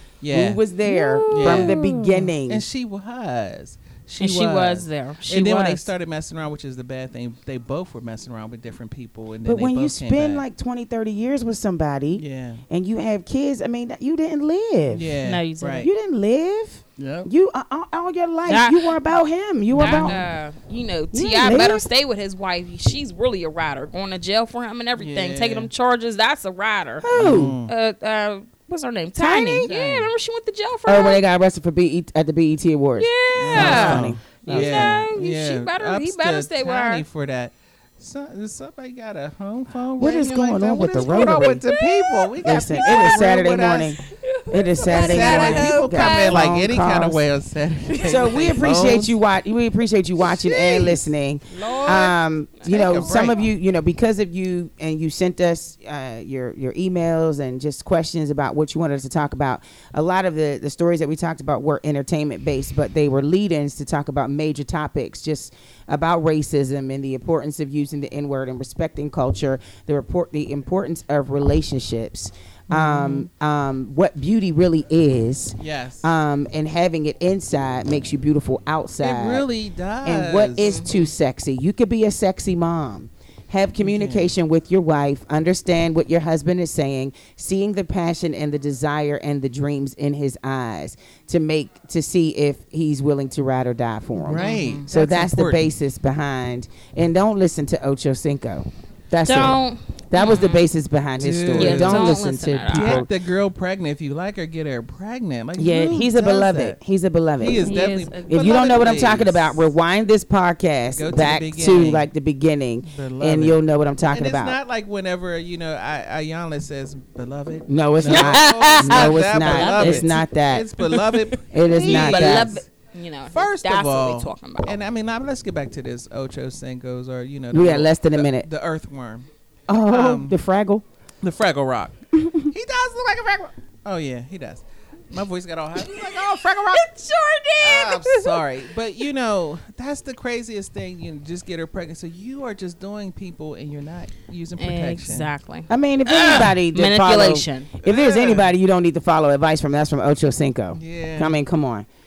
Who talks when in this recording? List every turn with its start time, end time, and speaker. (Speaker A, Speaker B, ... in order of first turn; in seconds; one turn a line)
Speaker A: 0.2-0.6
Speaker B: 0.3-2.6
Speaker C: 0.8-2.3
Speaker A: 1.3-1.8
Speaker A: 2.4-10.4
Speaker C: 4.2-5.9
Speaker B: 9.4-15.1
Speaker A: 12.2-12.6
Speaker A: 14.9-15.9
Speaker C: 15.2-15.9
Speaker B: 15.8-20.2
Speaker A: 17.0-17.3
Speaker C: 18.4-18.9
Speaker A: 19.7-20.2
Speaker C: 19.8-31.2
Speaker B: 21.1-21.8
Speaker A: 25.0-25.7
Speaker B: 27.0-27.6
Speaker A: 27.1-27.7
Speaker B: 29.2-29.7
Speaker A: 29.6-30.1
Speaker B: 30.9-35.0
Speaker C: 33.0-37.0
Speaker A: 33.3-44.0
Speaker B: 40.0-41.6
Speaker C: 40.9-43.1
Speaker B: 42.4-47.2
Speaker C: 44.0-46.5
Speaker A: 44.9-49.1
Speaker C: 47.9-48.6
Speaker B: 48.0-79.5
Speaker A: 50.4-51.0
Speaker C: 51.5-53.4
Speaker A: 51.7-53.5
Speaker A: 72.7-73.3
Speaker A: 75.6-76.1
Speaker A: 79.0-80.8
Speaker B: 80.0-103.1
Speaker C: 80.6-81.1
Speaker A: 83.8-84.3
Speaker A: 94.1-95.7
Speaker C: 94.3-94.8
Speaker C: 99.2-100.7
Speaker A: 101.2-106.8
Speaker C: 101.5-103.0
Speaker B: 105.6-114.6
Speaker A: 107.4-109.7
Speaker C: 107.5-108.8
Speaker A: 110.9-112.1
Speaker A: 112.8-113.6
Speaker A: 114.1-122.7
Speaker B: 117.7-120.7
Speaker C: 118.1-120.3
Speaker C: 120.8-124.8
Speaker B: 121.5-122.6
Speaker A: 123.3-129.3
Speaker B: 127.5-128.5
Speaker B: 129.7-130.8
Speaker A: 129.8-130.3
Speaker A: 131.2-136.9
Speaker B: 132.1-132.5
Speaker C: 135.8-138.4
Speaker A: 137.6-145.3
Speaker C: 144.6-147.7
Speaker B: 145.7-151.9
Speaker A: 146.1-146.5
Speaker A: 147.8-148.5
Speaker A: 150.7-151.4